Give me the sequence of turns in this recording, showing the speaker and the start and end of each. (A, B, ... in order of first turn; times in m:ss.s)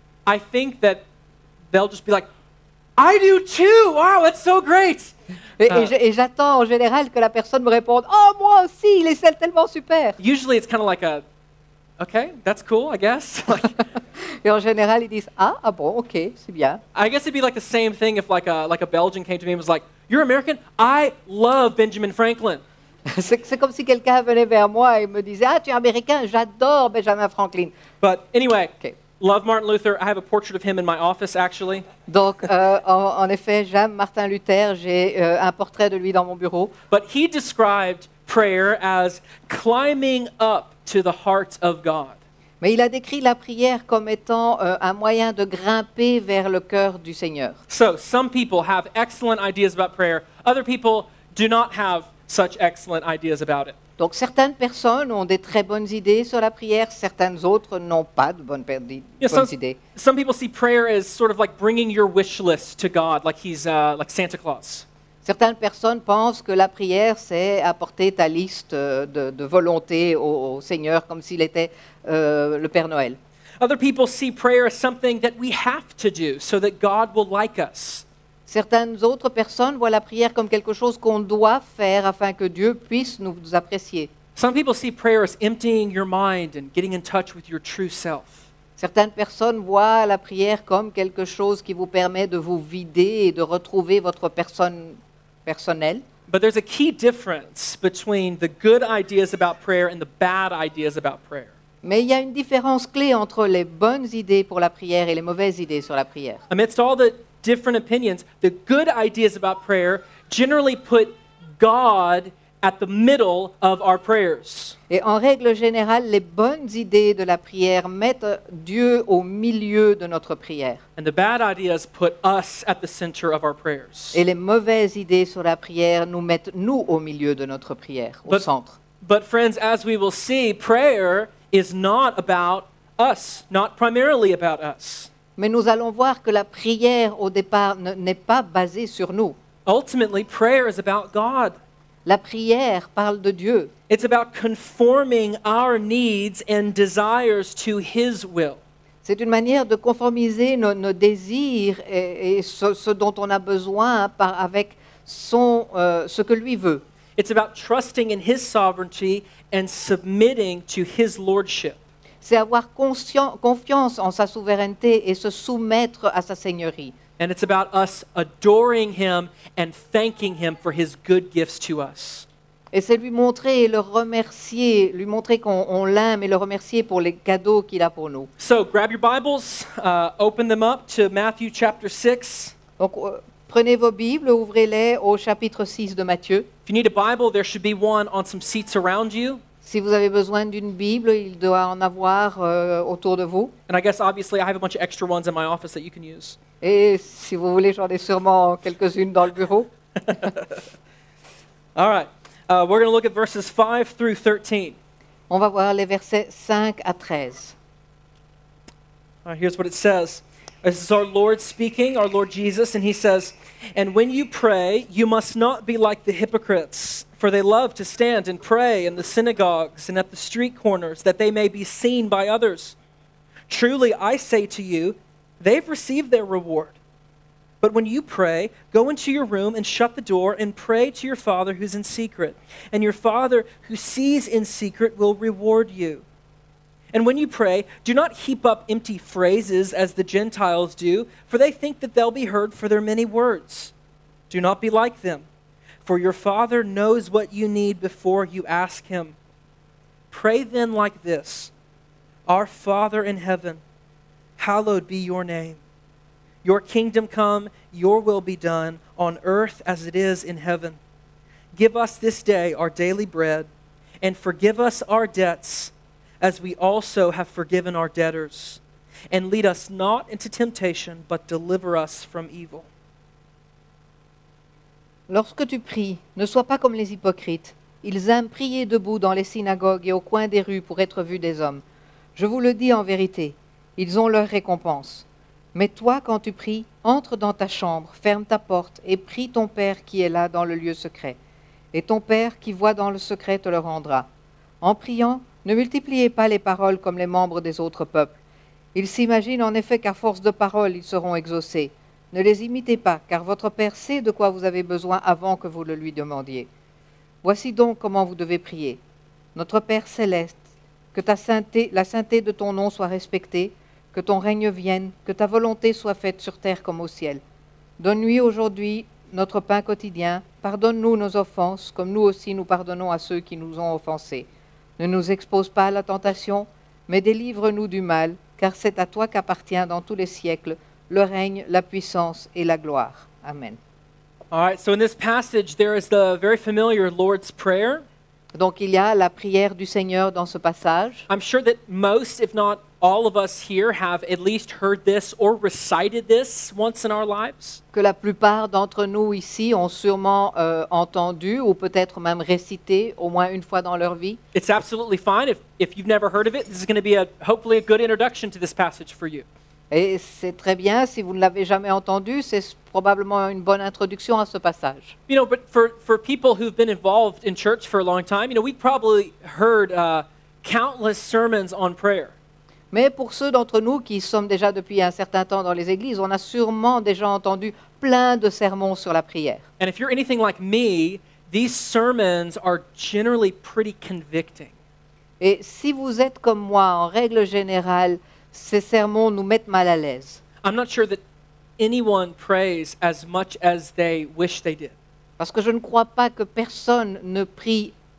0:00.2-0:01.0 A
0:01.7-0:02.2 A
0:03.0-0:05.1 A
0:05.6-0:10.2 B
0:05.7-0:05.9 A
0:10.2-0:11.2 A
0:12.0-0:13.8 A
0:14.2-0:16.8 B
0:16.9-0:22.6 A
0:23.1-0:27.7 B
0:28.0-0:31.8 A
0:32.1-0:36.7 B
0:36.9-0:42.2 A
0:42.6-0:47.6 B
0:47.7-0:53.8 A
0:54.0-0:59.8 B
0:59.2-1:04.8 A
1:05.2-1:13.2 B
1:13.6-1:18.0 A
1:18.5-1:24.1 B
1:24.4-1:28.4 A
1:28.8-1:36.0 B
1:36.3-1:41.5 A
1:41.8-1:46.4 B
1:46.5-1:54.8 A
1:54.9-2:00.8 B
2:01.0-2:04.2 A
2:04.1-2:08.8 B
2:09.0-2:15.1 A
2:15.4-2:19.3 B
2:19.6-2:21.5 A
2:22.0-2:23.7 B
2:23.9-2:28.6 A
2:29.0-2:36.8 B
2:37.2-2:41.8 A
2:42.2-2:46.9 B
2:47.2-2:52.2 A
2:52.7-2:58.3 B
2:58.4-3:02.6 A
3:02.8-3:06.5 B
3:06.6-3:09.4 A
3:09.6-3:13.5 B
3:13.7-3:16.4 A
3:16.6-3:20.3 B
3:20.0-3:20.6 A
3:21.8-3:24.8 A
3:25.3-3:27.6 B
3:29.2-3:42.7 A
3:43.5-3:46.8 A
3:47.6-3:56.0 A
3:56.9-4:03.7 A
4:04.3-4:05.3 A
4:05.8-4:09.2 A
4:10.1-4:11.5 A
4:12.3-4:13.6 A
4:14.4-4:15.6 A
4:16.4-4:20.8 A
4:21.5-4:23.5 A
4:24.0-4:32.7 A
4:35.1-4:41.6 B
4:42.2-4:51.2 B
4:51.7-4:54.1 B
4:54.6-4:58.2 B
4:58.7-5:06.5 B
5:07.2-5:08.8 B
5:09.3-5:10.4 B
5:10.9-5:17.2 B
5:17.8-5:24.3 B
5:24.8-5:33.6 B
5:34.3-5:37.8 A
5:38.3-5:41.0 B
5:41.1-5:47.6 A
5:47.7-5:54.2 B
5:54.3-5:59.2 A
5:59.7-6:04.9 B
6:05.1-6:12.1 A
6:12.7-6:19.4 B
6:19.6-6:24.5 A
6:25.2-6:30.2 B
6:30.4-6:31.0 A
6:31.6-6:34.7 A
6:35.2-6:37.7 B